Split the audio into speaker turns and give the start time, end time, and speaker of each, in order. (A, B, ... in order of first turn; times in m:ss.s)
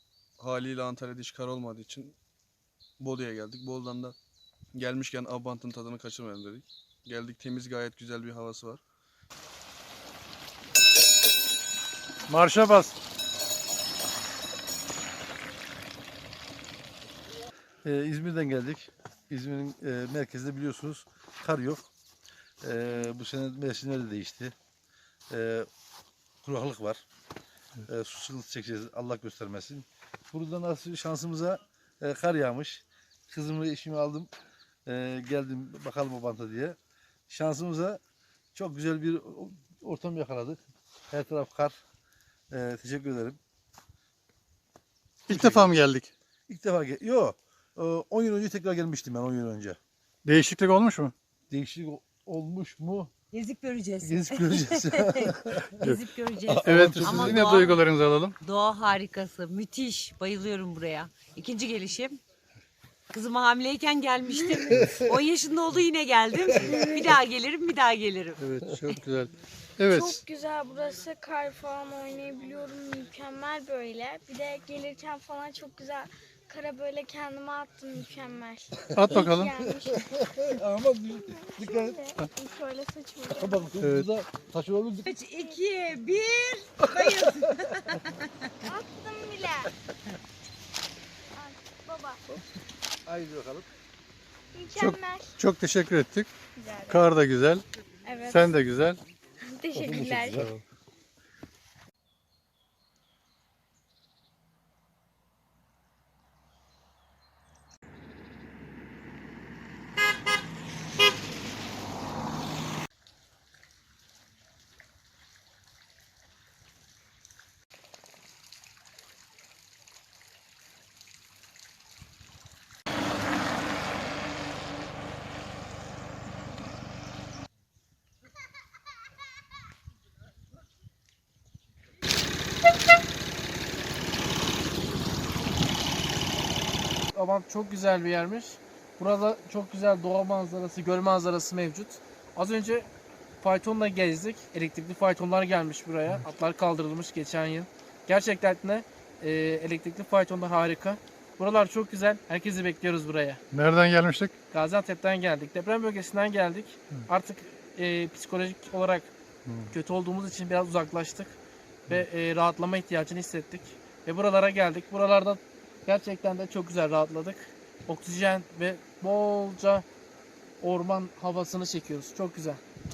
0:00.4-0:02.2 A
0:03.0-0:04.2 A
0:04.7-0:08.8 A
0:12.3-0:13.0 B
0:17.8-0:21.9 C
0:22.6-0:24.5 C
0:25.3-0:25.7 C
0:26.4-0:27.0 C
0:27.8-0:34.3 C
0:34.8-0:36.8 C
0:37.3-0:38.0 C
0:38.5-0:40.6 C
0:41.1-0:41.8 C
0:42.5-0:43.4 C
0:45.3-0:46.1 B
0:45.3-0:45.7 C
0:46.5-0:49.8 C
0:50.2-0:51.1 B
0:51.5-0:53.1 C
0:53.3-0:57.8 D
0:54.0-0:55.9 C
0:56.4-0:57.6 C
0:56.6-0:58.4 B
0:58.4-1:02.2 D
1:03.1-1:08.4 D
1:06.7-1:07.0 E
1:08.4-1:10.2 B
1:09.9-1:20.1 E
1:18.9-1:19.5 B
1:19.0-1:22.1 C
1:21.1-1:23.7 E
1:23.3-1:25.1 C
1:23.8-1:24.0 B
1:25.0-1:28.5 D
1:27.0-1:27.3 C
1:28.6-1:29.7 E
1:31.4-1:32.2 E
1:33.0-1:33.7 C
1:34.5-1:35.3 E
1:34.8-1:36.3 B
1:36.6-1:37.1 E
1:36.9-1:37.6 B
1:38.0-1:38.6 E
1:38.3-1:39.0 B
1:39.4-1:40.4 E
1:39.7-1:40.6 C
2:17.1-2:22.9 F
2:23.4-2:33.4 F
2:33.5-2:34.3 B
2:34.5-2:39.1 F
2:39.4-2:39.7 B
2:39.7-2:49.8 F
2:50.6-2:52.6 F